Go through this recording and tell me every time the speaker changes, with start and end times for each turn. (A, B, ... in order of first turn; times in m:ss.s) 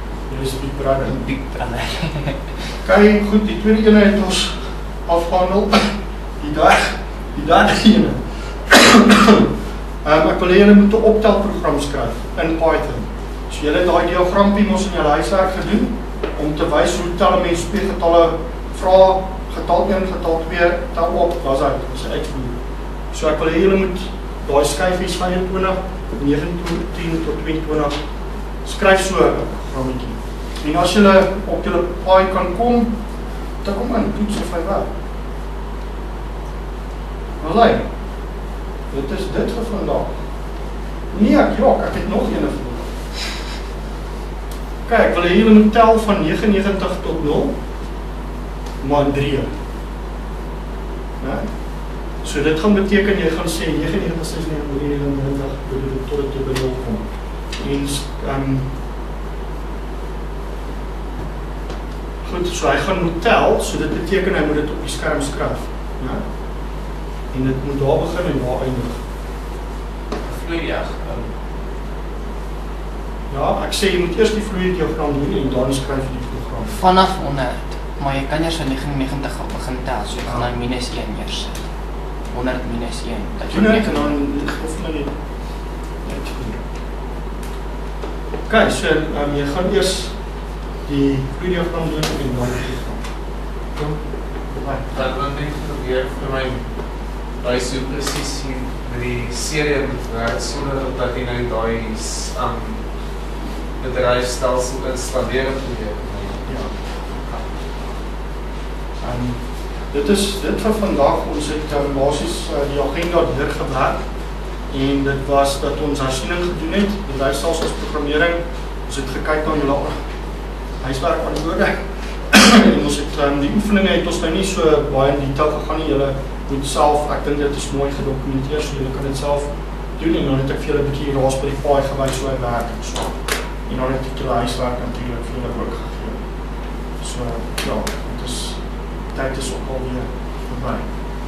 0:00.3-0:01.3 A
0:01.2-0:02.6 B
0:02.8-0:09.5 A
0:10.0-0:22.6 A
0:23.1-0:27.9 A
0:28.6-0:32.9 A
0:33.6-0:34.9 A
0:37.4-0:37.9 A
0:38.9-0:40.1 A
0:41.1-0:43.0 A
0:44.9-0:47.6 A
0:48.8-0:49.5 A
0:51.2-0:51.5 A
0:52.2-0:57.0 A
0:57.6-0:58.7 A
1:02.2-1:06.2 A
1:07.3-1:09.0 A
1:10.2-1:11.3 B
1:13.3-1:16.8 A
1:16.7-1:21.6 B
1:22.3-1:24.2 B
1:23.5-1:25.1 A
1:26.0-1:26.6 A
1:28.5-1:30.1 A
1:30.9-1:33.0 A
1:34.5-1:34.9 A
1:34.9-1:36.7 C
1:37.4-1:42.8 C
1:43.8-1:46.4 C
1:46.4-1:47.5 A
1:49.0-1:54.0 A
1:54.7-2:00.0 A
2:00.8-2:01.8 A
2:02.3-2:13.2 A
2:13.7-2:16.2 A
2:17.0-2:18.6 A
2:19.1-2:20.9 A